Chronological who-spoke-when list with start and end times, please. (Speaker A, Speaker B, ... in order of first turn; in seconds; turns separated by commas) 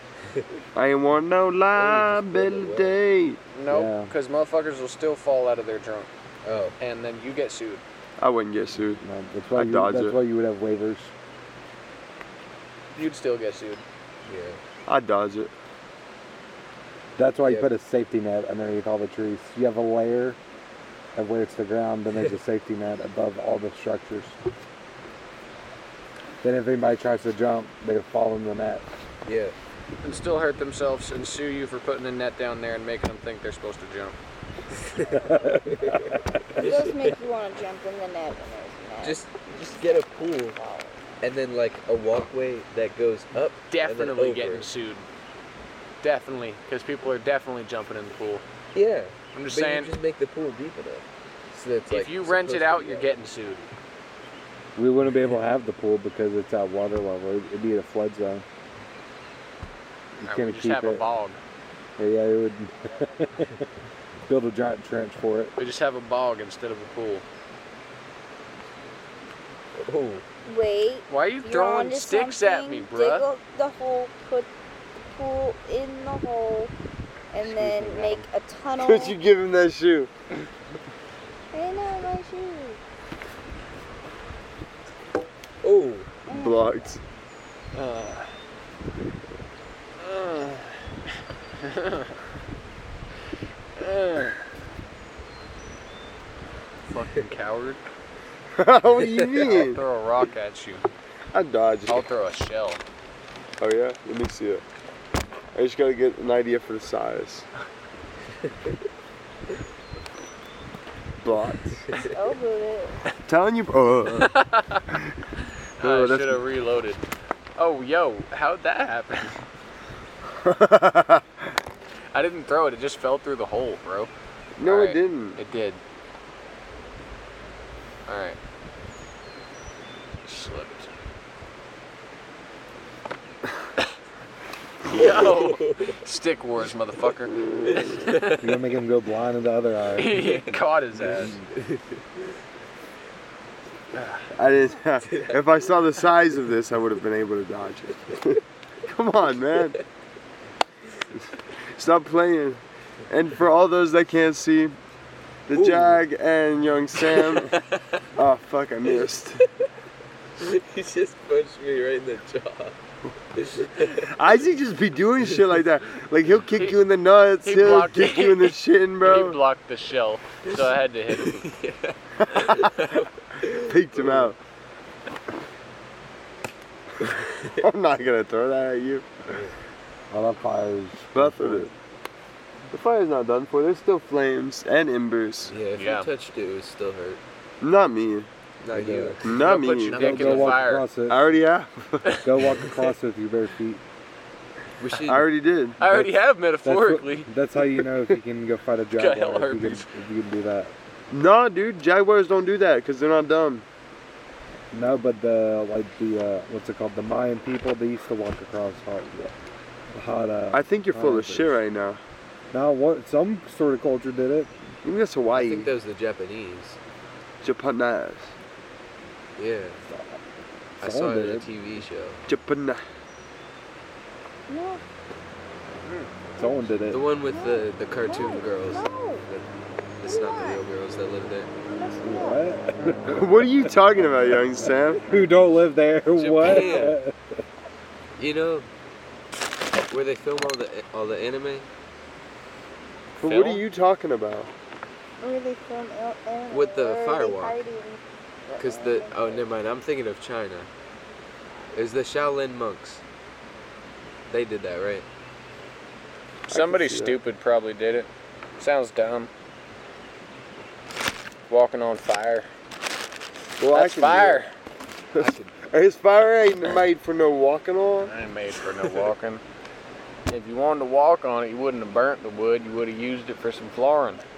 Speaker A: 0.8-3.4, Speaker B: 1.8-3.0, Speaker C: 3.5-6.1, Speaker D: 3.7-4.1, Speaker B: 6.4-6.8, Speaker C: 6.8-7.8, Speaker A: 8.2-9.0, Speaker D: 9.0-11.1, Speaker A: 9.6-10.2, Speaker C: 12.9-13.8, Speaker B: 14.3-14.6, Speaker A: 14.9-15.5, Speaker D: 17.2-20.4, Speaker D: 21.1-24.4, Speaker D: 26.4-28.9, Speaker B: 29.3-29.6, Speaker C: 30.0-34.2, Speaker B: 34.8-35.1, Speaker D: 35.0-36.7, Speaker B: 35.7-37.1, Speaker E: 36.6-41.0, Speaker B: 39.0-40.6, Speaker B: 41.2-44.7, Speaker C: 43.7-45.1, Speaker C: 46.0-48.4, Speaker B: 48.8-53.2, Speaker C: 49.3-50.0, Speaker C: 51.9-53.7, Speaker D: 54.8-58.5, Speaker D: 60.2-61.0, Speaker C: 60.2-61.4, Speaker D: 62.0-63.6, Speaker D: 64.3-65.5, Speaker C: 65.6-67.2, Speaker B: 69.8-70.2, Speaker E: 70.5-74.5, Speaker C: 71.1-73.3, Speaker E: 75.1-76.7, Speaker E: 77.3-79.2, Speaker B: 77.4-78.3, Speaker A: 78.8-80.1, Speaker E: 81.5-82.8, Speaker B: 85.6-86.1, Speaker E: 86.3-87.0, Speaker A: 86.3-87.0, Speaker C: 87.7-88.3, Speaker C: 90.0-90.7, Speaker C: 91.6-92.2, Speaker C: 93.8-94.4, Speaker C: 96.9-97.8, Speaker A: 98.6-99.8, Speaker C: 99.4-100.9, Speaker A: 101.3-102.1, Speaker C: 101.9-102.8, Speaker A: 103.6-104.6, Speaker A: 105.5-107.5, Speaker A: 111.2-111.8, Speaker E: 112.0-113.0, Speaker A: 113.3-114.3, Speaker C: 114.2-114.8, Speaker A: 114.9-115.2, Speaker C: 115.8-117.1, Speaker A: 115.8-116.4, Speaker C: 117.6-119.4, Speaker A: 120.4-121.2, Speaker C: 122.1-124.1, Speaker A: 124.6-125.4, Speaker C: 124.6-125.8, Speaker C: 128.1-128.4, Speaker C: 130.2-130.9, Speaker C: 134.9-138.4, Speaker B: 134.9-136.0, Speaker B: 137.8-138.4, Speaker D: 138.4-140.2, Speaker C: 140.0-141.4, Speaker B: 140.1-142.3, Speaker C: 143.9-144.3, Speaker A: 144.3-149.8, Speaker B: 145.1-145.4, Speaker A: 151.7-154.8, Speaker A: 155.5-157.5, Speaker B: 155.5-156.0, Speaker A: 158.2-159.5, Speaker B: 158.9-159.7, Speaker B: 160.4-162.8, Speaker B: 163.3-164.1, Speaker A: 163.8-169.4, Speaker C: 166.5-166.8, Speaker C: 167.4-171.5, Speaker B: 171.1-174.3, Speaker A: 172.2-174.4, Speaker B: 177.0-177.6, Speaker A: 177.5-179.2, Speaker B: 179.3-179.6, Speaker D: 180.1-181.7, Speaker A: 181.1-181.7, Speaker A: 182.7-185.5, Speaker B: 185.5-187.2, Speaker C: 185.8-186.1, Speaker A: 187.6-188.3, Speaker B: 188.6-190.7, Speaker D: 188.7-189.2, Speaker A: 189.2-190.0, Speaker C: 189.4-190.9, Speaker D: 189.9-191.3, Speaker A: 191.1-192.2, Speaker D: 192.2-193.8, Speaker B: 194.8-195.2, Speaker A: 195.1-195.8, Speaker C: 195.8-197.3, Speaker D: 196.6-200.7, Speaker C: 199.0-199.9, Speaker A: 201.1-203.7, Speaker D: 204.7-209.3, Speaker D: 209.9-211.6, Speaker A: 210.5-212.0, Speaker D: 212.5-214.5, Speaker A: 214.8-215.7, Speaker B: 215.3-216.8, Speaker A: 217.4-218.3, Speaker B: 219.4-219.8, Speaker D: 219.8-220.2, Speaker D: 220.8-221.5, Speaker B: 220.8-222.2, Speaker A: 222.3-222.8, Speaker E: 224.5-224.8, Speaker D: 226.3-227.1, Speaker E: 226.4-226.7, Speaker B: 226.9-229.5, Speaker E: 227.3-229.3, Speaker B: 230.0-231.5, Speaker E: 230.0-230.6, Speaker E: 231.7-232.4, Speaker D: 232.0-233.8, Speaker A: 233.1-235.1, Speaker D: 235.0-237.2, Speaker C: 236.2-237.0, Speaker B: 236.4-237.0, Speaker B: 238.2-238.7, Speaker B: 239.9-241.7, Speaker C: 243.2-243.6, Speaker A: 243.2-244.5, Speaker E: 245.2-249.5, Speaker B: 246.5-247.6, Speaker B: 248.6-250.7, Speaker B: 251.7-253.0, Speaker B: 254.3-255.1, Speaker C: 256.5-259.3, Speaker A: 256.5-257.2, Speaker C: 261.5-262.5, Speaker A: 263.6-264.4, Speaker C: 263.7-264.5, Speaker A: 265.1-268.1, Speaker B: 265.2-265.7, Speaker C: 268.0-269.4, Speaker C: 270.3-274.2